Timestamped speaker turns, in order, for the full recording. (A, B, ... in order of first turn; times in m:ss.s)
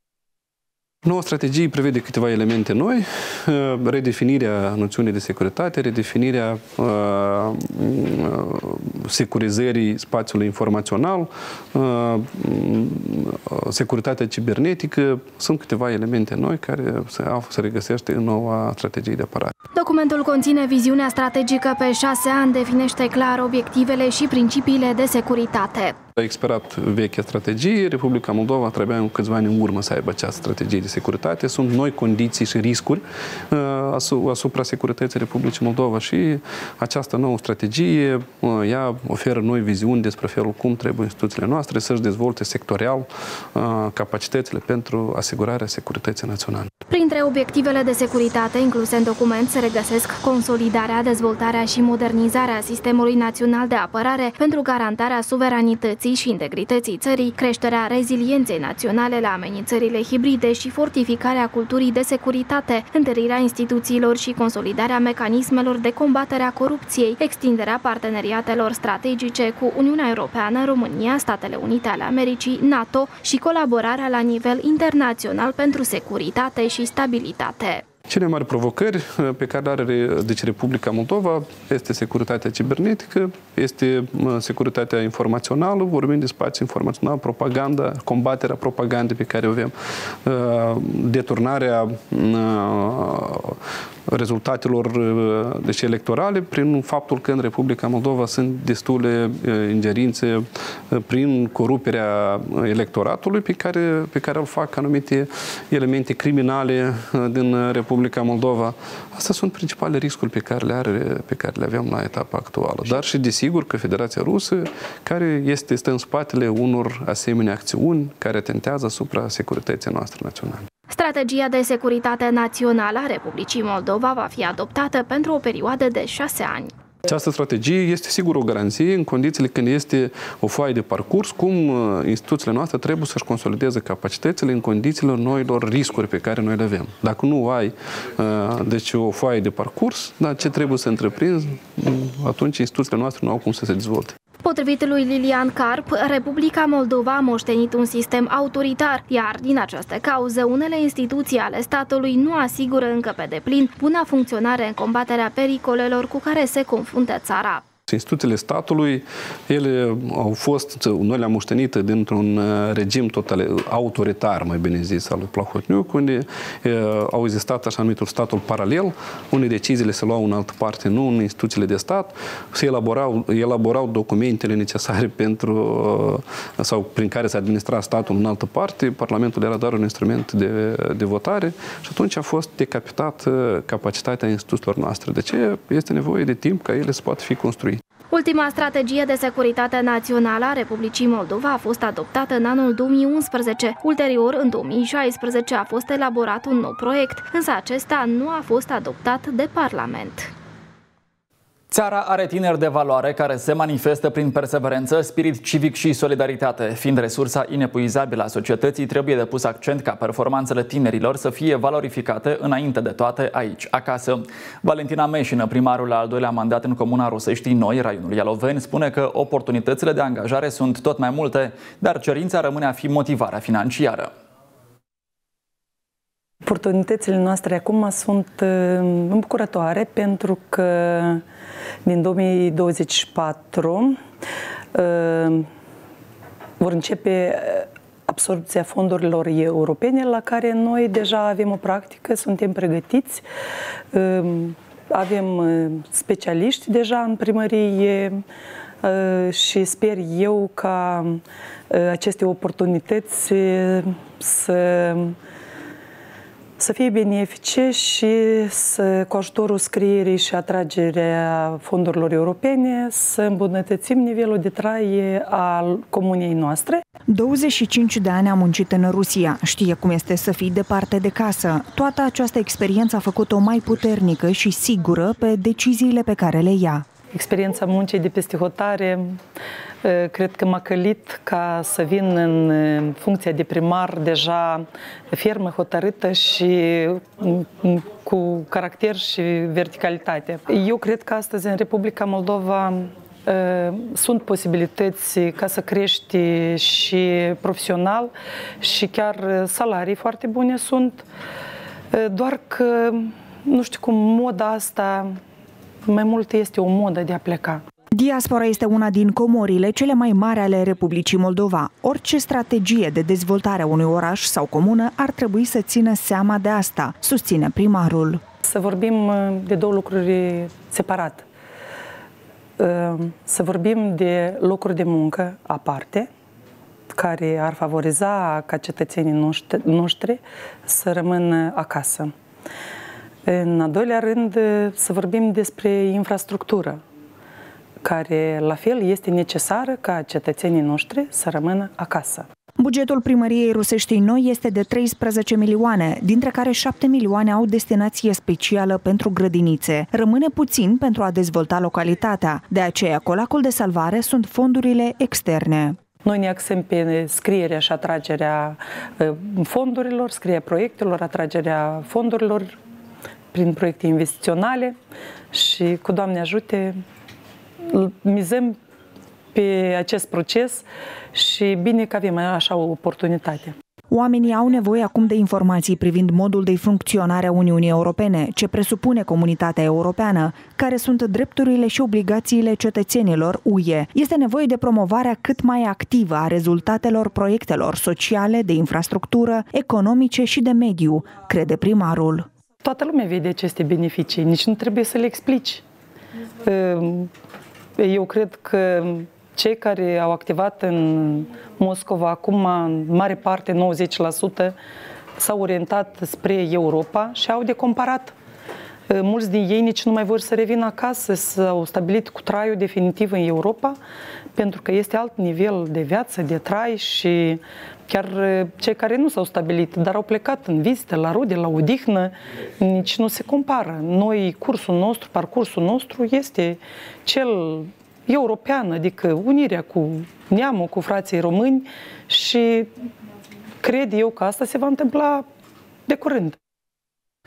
0:01.0-0:19.5 A
0:19.7-0:25.9 B
0:26.2-0:46.7 A
0:46.9-1:17.8 B
1:18.1-2:00.6 A
2:00.9-2:06.7 B
2:07.0-2:24.1 A
2:24.4-2:37.6 B
2:37.9-3:07.8 A
3:08.1-3:20.3 B
3:21.7-3:44.1 C
3:46.4-3:51.2 D
3:51.9-3:54.0 D
3:54.7-3:55.5 D
3:56.6-4:03.2 D
4:03.9-4:08.2 D
4:08.8-4:15.2 D
4:16.6-4:26.8 D
4:27.1-4:36.8 E
4:37.1-4:39.2 D
4:39.8-5:01.0 D
5:01.9-5:05.2 D
5:05.9-5:07.6 D
5:07.9-5:18.2 E
5:18.4-5:21.3 D
5:22.6-5:26.1 D
5:26.9-5:32.1 D
5:33.3-5:36.8 D
5:37.8-5:42.3 D
5:42.6-5:55.8 E
5:56.0-6:02.6 D
6:03.3-6:04.8 D
6:05.3-6:06.8 D
6:07.6-6:08.6 D
6:09.3-6:13.6 D
6:13.9-6:32.3 E
6:32.6-6:35.6 D
6:36.4-6:37.1 D
6:37.8-6:44.6 D
6:45.2-6:48.1 D
6:48.9-6:53.8 D
6:54.4-7:12.7 D
7:13.6-7:15.3 D
7:15.9-7:16.4 D